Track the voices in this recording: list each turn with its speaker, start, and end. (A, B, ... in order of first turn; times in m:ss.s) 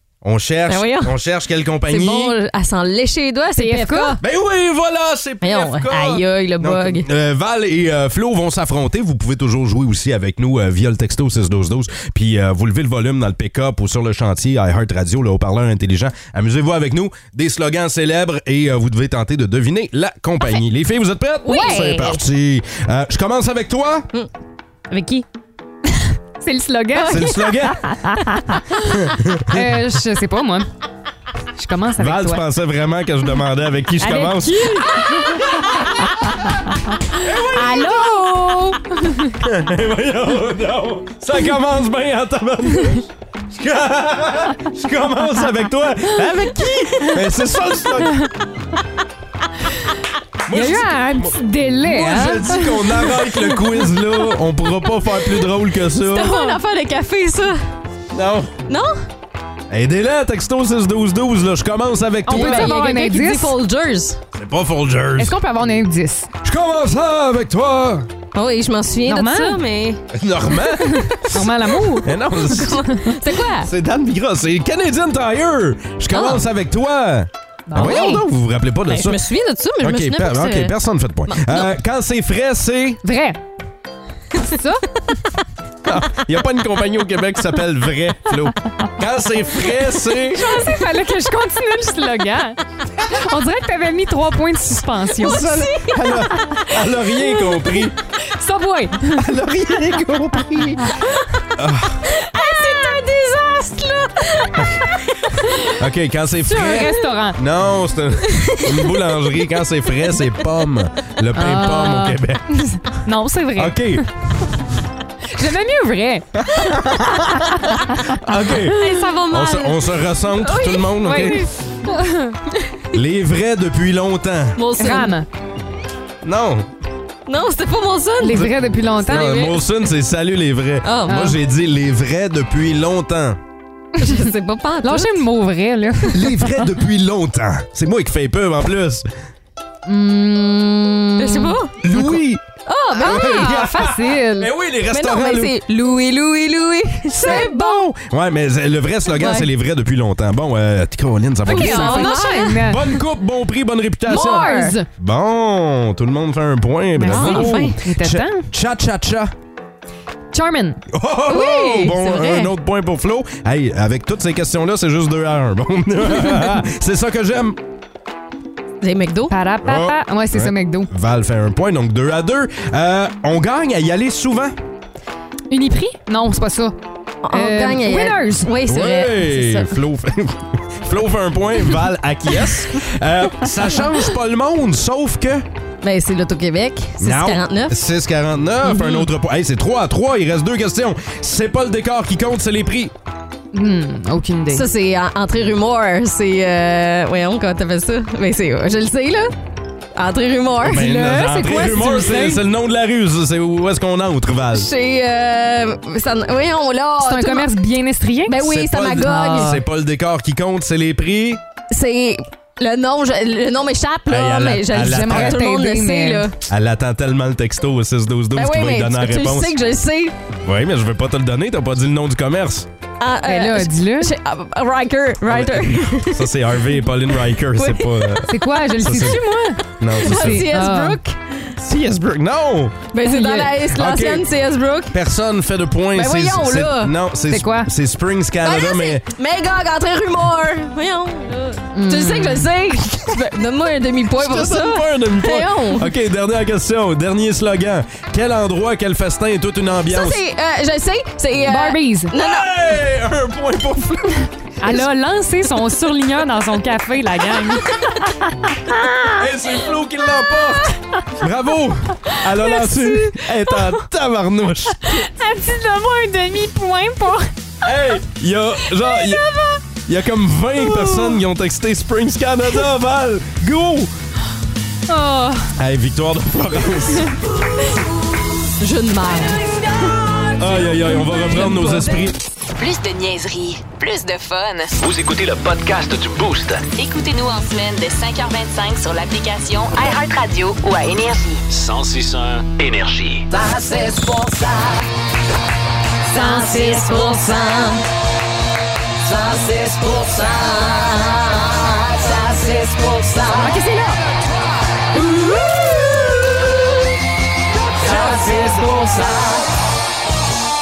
0:00.2-0:02.3 A
0:00.7-0:01.2 B
0:01.8-0:04.2 B
0:03.6-0:04.2 C
0:04.2-0:24.1 A
0:05.4-0:07.1 B
0:21.4-0:22.2 C
0:21.5-0:21.9 B
0:24.9-0:25.2 B
0:25.9-0:28.9 C
0:26.9-0:27.6 B
0:27.1-0:27.8 A
0:28.9-0:29.8 A
0:29.5-0:30.7 C
0:31.6-0:32.4 C
0:32.0-0:36.1 A
0:34.0-0:39.4 C
0:37.2-0:38.3 A
0:39.4-0:48.3 A
0:50.4-0:56.4 A
0:50.5-0:53.6 C
0:55.9-0:57.6 B
0:56.2-0:56.6 C
0:58.1-0:58.6 A
0:58.7-0:59.0 B
0:59.7-1:02.8 A
1:02.3-1:03.5 C
1:02.3-1:04.2 B
1:04.4-1:05.3 A
1:05.2-1:06.3 C
1:06.4-1:08.1 A
1:08.3-1:10.0 B
1:09.0-1:09.6 C
1:10.1-1:11.5 A
1:10.7-1:13.2 C
1:12.0-1:12.8 A
1:12.3-1:13.7 B
1:13.6-1:19.2 A
1:16.1-1:16.4 B
1:17.7-1:18.2 C
1:17.8-1:18.2 B
1:18.8-1:20.8 B
1:19.8-1:23.0 A
1:21.3-1:21.7 B
1:23.0-1:23.4 C
1:24.4-1:25.1 C
1:25.8-1:30.6 A
1:30.3-1:36.7 C
1:35.2-1:36.3 B
1:35.2-1:37.9 A
1:38.3-1:39.2 C
1:39.2-1:40.9 A
1:41.6-1:42.0 A
1:42.0-1:45.8 B
1:45.4-1:45.6 C
1:45.8-1:52.4 A
1:46.5-1:47.4 C
1:48.5-1:48.9 B
1:51.3-1:54.0 C
1:53.6-1:54.0 A
1:55.3-1:58.8 C
1:56.4-1:58.8 A
1:58.6-2:02.7 B
1:59.3-2:01.5 A
2:01.0-2:02.3 C
2:02.9-2:04.6 A
2:04.6-2:05.2 B
2:04.8-2:05.2 C
2:06.2-2:06.7 A
2:07.2-2:08.5 B
2:08.2-2:09.6 C
2:09.1-2:13.4 A
2:09.1-2:09.5 B
2:10.8-2:11.3 B
2:11.1-2:11.4 C
2:14.0-2:15.3 B
2:14.0-2:16.7 C
2:16.1-2:19.1 A
2:19.8-2:21.6 C
2:21.2-2:22.1 B
2:21.8-2:22.4 A
2:22.6-2:23.7 B
2:22.9-2:24.5 C
2:23.0-2:25.5 A
2:24.9-2:27.8 B
2:27.2-2:39.3 A
2:27.2-2:27.6 C
2:29.0-2:29.5 B
2:31.4-2:33.0 B
2:31.4-2:33.0 C
2:34.1-2:34.9 C
2:34.1-2:34.8 B
2:37.0-2:38.4 C
2:37.0-2:37.8 B
2:40.3-2:40.8 C
2:40.9-2:47.6 A
2:41.3-2:42.5 B
2:48.8-2:49.4 B
2:49.3-2:50.9 C
2:49.6-2:54.6 A
2:55.5-2:56.8 C
2:57.2-2:59.7 B
2:57.3-2:58.5 C
2:58.7-3:05.5 A
3:05.8-3:07.8 B
3:07.0-3:12.9 A
3:08.7-3:09.0 B
3:13.5-3:14.6 C
3:14.5-3:19.3 B
3:20.0-3:21.1 B
3:20.6-3:24.7 A
3:20.8-3:22.4 C
3:24.5-3:27.5 B
3:27.0-3:28.4 C
3:28.2-3:29.6 B
3:28.4-3:31.4 A
3:29.0-3:29.6 C
3:31.7-3:36.4 B
3:34.1-3:35.4 A
3:34.9-3:36.2 C
3:36.5-3:39.5 A
3:38.3-3:40.2 B
3:40.4-3:42.7 A
3:43.0-3:51.5 B
3:43.2-3:44.1 C
3:45.3-3:48.2 A
3:48.3-3:51.0 C
3:48.8-3:49.2 A
3:49.8-3:50.5 A
3:51.6-3:52.9 A
3:52.9-3:55.0 B
3:53.0-3:53.6 C
3:53.7-3:54.3 A
3:54.9-3:59.1 A
3:55.9-3:57.0 B
3:57.3-3:57.7 C
3:58.4-4:05.9 B
4:01.7-4:02.5 C
4:04.2-4:10.2 A
4:09.8-4:12.8 B
4:11.5-4:12.1 C
4:12.2-4:14.3 A
4:14.6-4:18.8 C
4:17.6-4:18.0 B
4:18.7-4:19.1 B
4:19.2-4:24.9 A
4:20.3-4:20.6 B
4:22.1-4:23.8 C
4:24.8-4:28.0 C
4:27.6-4:29.2 A
4:28.6-4:29.6 C
4:29.8-4:33.9 A
4:30.6-4:31.2 C
4:34.9-4:35.5 C
4:35.6-4:37.3 A
4:38.6-4:39.9 B
4:40.4-4:42.2 A
4:40.6-4:42.0 B
4:41.2-4:41.7 C
4:42.6-4:44.7 D
4:44.8-4:46.7 E
4:46.7-4:51.4 D
4:51.5-4:53.3 E
4:53.3-4:54.8 B
4:56.1-4:57.8 B
4:56.1-4:57.3 C
4:59.0-5:03.7 B
5:03.4-5:04.0 C
5:04.9-5:06.2 B
5:07.8-5:09.5 B